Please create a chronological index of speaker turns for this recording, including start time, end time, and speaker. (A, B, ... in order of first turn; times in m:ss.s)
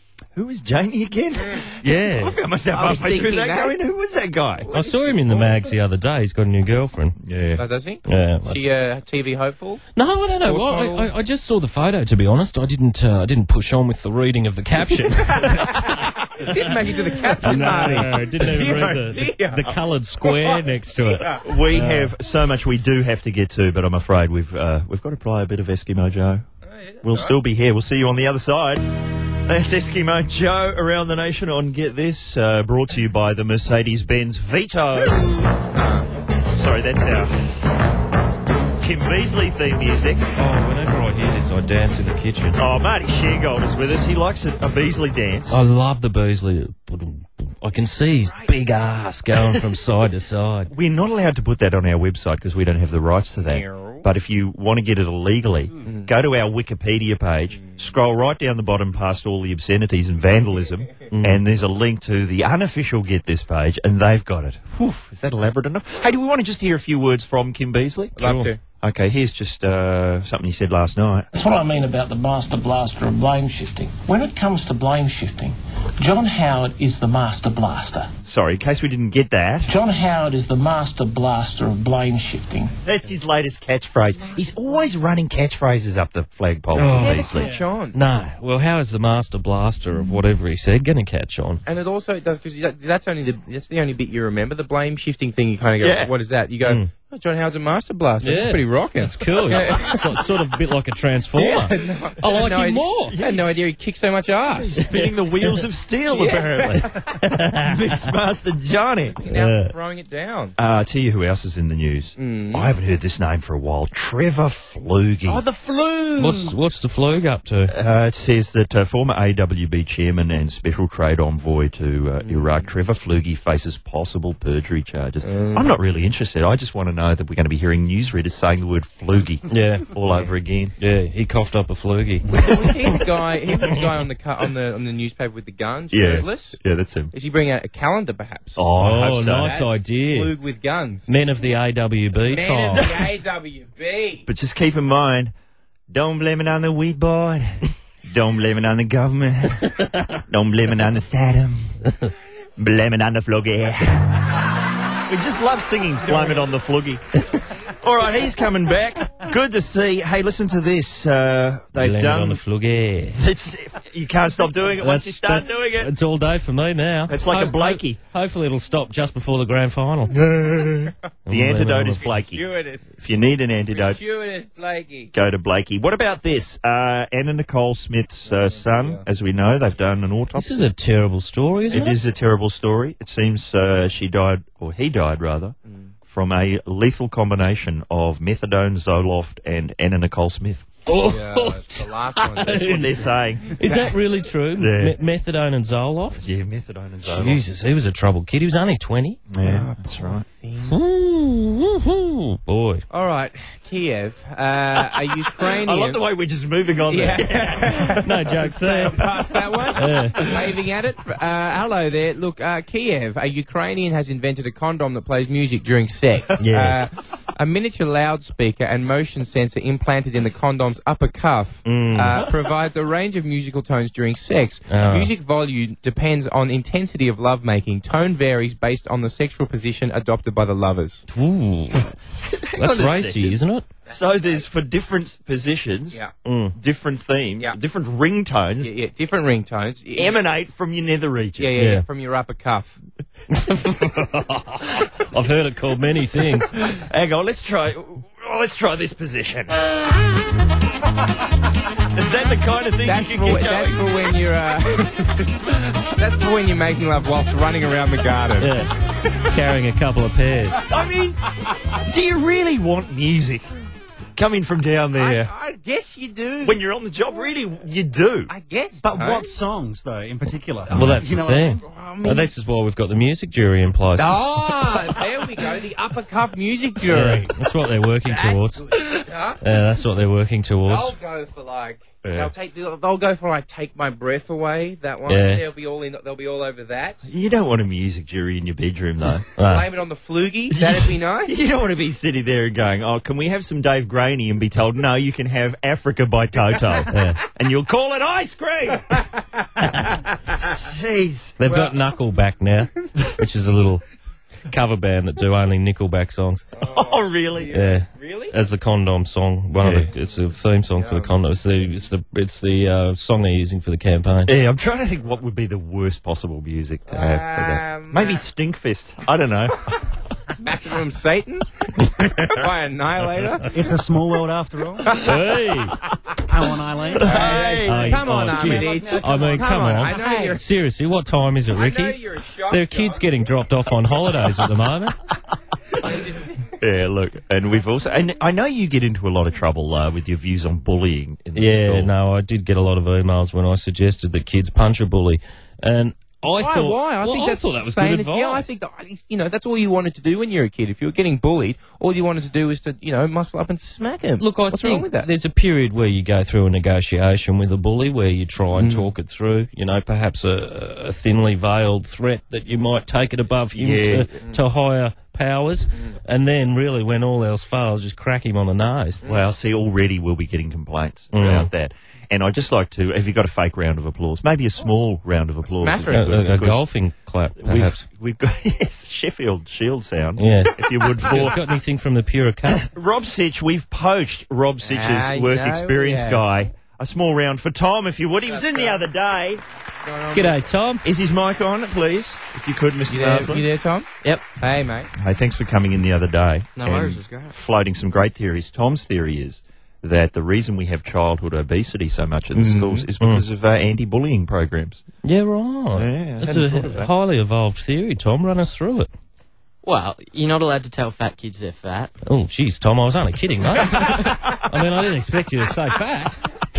0:00.3-0:04.7 A
0:01.8-0:02.4 B
0:02.7-0:03.7 C
0:04.6-0:05.6 C
0:04.7-0:07.2 B
0:07.2-0:07.6 A
0:07.6-0:11.1 C
0:08.0-0:08.6 B
0:09.9-0:22.1 B
0:15.1-0:19.7 C
0:17.4-0:18.0 A
0:18.6-0:19.0 A
0:20.2-0:20.6 C
0:21.1-0:21.4 C
0:21.4-0:26.4 A
0:26.7-0:27.3 C
0:27.0-0:35.3 A
0:35.7-0:36.1 C
0:36.5-0:37.4 A
0:38.8-0:40.2 A
0:40.3-0:42.6 B
0:42.6-0:45.6 A
0:45.5-0:50.7 B
0:48.2-0:48.6 C
0:50.7-1:08.2 A
0:53.4-0:54.1 C
0:55.8-0:56.1 C
0:57.5-0:57.8 C
1:01.1-1:01.4 B
1:08.2-1:08.5 B
1:08.2-1:08.6 C
1:08.8-1:11.3 A
1:11.3-1:18.1 D
1:18.2-1:19.7 A
1:19.7-1:22.7 D
1:22.8-1:27.5 A
1:26.7-1:27.3 B
1:26.7-1:28.0 C
1:27.9-1:31.6 B
1:31.6-1:40.0 C
1:35.8-1:36.1 A
1:36.6-1:36.9 B
1:38.2-1:43.2 B
1:41.4-1:44.8 C
1:43.1-1:43.6 A
1:44.6-1:46.9 A
1:44.8-1:45.1 B
1:46.1-1:47.0 C
1:47.1-1:47.9 B
1:47.5-1:49.2 A
1:49.2-1:50.5 C
1:49.3-1:49.7 B
1:50.6-1:55.4 A
1:52.2-1:52.7 C
1:55.2-1:56.5 C
1:56.2-1:57.7 B
1:57.7-2:10.7 A
2:02.2-2:02.6 C
2:05.2-2:05.7 C
2:09.5-2:09.9 B
2:10.8-2:12.3 B
2:12.3-2:16.6 C
2:15.9-2:17.1 A
2:17.1-2:18.6 C
2:18.6-2:19.6 A
2:18.8-2:20.3 B
2:19.4-2:21.1 C
2:21.1-2:23.0 B
2:22.2-2:24.3 C
2:22.7-2:23.0 A
2:24.2-2:25.3 A
2:25.9-2:29.7 A
2:30.3-2:31.8 A
2:32.6-2:34.4 A
2:35.0-2:37.0 A
2:36.1-2:36.4 C
2:37.8-2:42.4 A
2:41.8-2:43.2 B
2:43.1-2:45.9 A
2:44.8-2:50.2 B
2:47.1-2:48.0 A
2:50.1-2:54.0 A
2:51.2-2:52.0 B
2:52.0-2:53.0 C
2:53.7-2:55.1 C
2:55.1-3:00.7 A
2:58.3-2:59.0 C
3:00.3-3:02.0 B
3:01.7-3:05.5 A
3:05.7-3:05.9 C
3:06.1-3:10.7 A
3:10.8-3:16.2 B
3:11.0-3:12.9 C
3:12.5-3:13.6 A
3:14.6-3:15.0 A
3:16.2-3:17.4 A
3:17.0-3:19.2 B
3:19.3-3:20.2 A
3:19.4-3:20.8 C
3:20.7-3:22.8 B
3:22.9-3:26.0 C
3:25.5-3:27.7 A
3:26.9-3:51.0 C
3:27.0-3:29.1 B
3:29.7-3:30.2 B
3:36.4-3:36.8 B
3:41.6-3:42.3 B
3:44.7-3:45.1 B
3:51.1-3:51.9 B
3:52.6-3:53.3 A
3:52.6-3:53.6 B
3:53.9-3:54.4 C
3:53.9-3:56.0 A
3:56.2-3:56.5 B
3:56.6-3:58.7 A
3:58.6-4:00.1 C
4:00.0-4:01.5 A
4:01.4-4:02.8 C
4:01.6-4:01.8 B
4:03.3-4:06.5 B
4:06.7-4:09.6 A
4:11.9-4:13.9 A
4:12.8-4:18.5 C
4:18.4-4:18.7 B
4:19.3-4:20.6 B
4:20.7-4:21.2 A
4:21.8-4:23.5 A
4:24.2-4:25.3 A
4:24.9-4:26.6 C
4:26.4-4:28.3 A
4:28.3-4:29.4 C
4:28.8-4:31.6 E
4:30.7-4:34.2 B
4:31.6-4:32.3 C
4:34.0-4:37.3 C
4:36.9-4:38.6 B
4:38.0-4:39.4 C
4:39.4-4:40.9 B
4:40.7-4:47.1 C
4:42.0-4:42.3 A
4:45.0-4:45.4 B
4:47.0-4:49.2 A
4:49.4-4:49.7 B
4:49.4-4:51.3 C
4:50.5-4:59.0 A
4:56.9-4:57.2 B
5:00.3-5:01.4 A
5:01.4-5:03.8 B
5:01.4-5:01.7 C
5:04.5-5:06.4 B
5:06.5-5:08.3 C
5:06.6-5:07.6 A
5:07.5-5:14.3 B
5:09.6-5:09.9 A
5:10.8-5:11.1 C
5:14.2-5:19.6 A
5:16.9-5:18.2 C
5:20.4-5:23.7 C
5:23.5-5:25.0 E
5:25.0-5:25.8 B
5:26.2-5:27.5 E
5:26.9-5:30.4 C
5:27.0-5:28.0 A
5:27.6-5:35.0 B
5:28.3-5:30.2 E
5:31.5-5:33.1 C
5:35.7-5:36.5 C
5:36.6-5:41.9 A
5:41.3-5:48.5 B
5:46.3-5:55.1 C
5:54.2-6:09.0 B
5:58.5-5:58.9 C
6:03.5-6:04.1 A
6:09.0-6:16.6 A
6:11.1-6:11.5 B
6:15.4-6:16.2 C
6:15.9-6:17.8 B
6:17.4-6:21.4 A
6:20.2-6:22.7 B
6:22.5-6:29.4 A
6:24.6-6:26.2 C
6:28.3-6:28.8 C
6:29.8-6:30.4 C
6:30.1-6:30.8 B
6:30.8-6:33.4 A
6:32.9-6:34.9 C
6:34.9-6:44.8 A
6:36.6-6:37.4 F
6:42.3-6:42.9 C
6:45.0-6:48.9 B
6:45.7-6:46.9 A
6:49.6-6:51.9 F
6:52.0-6:56.2 B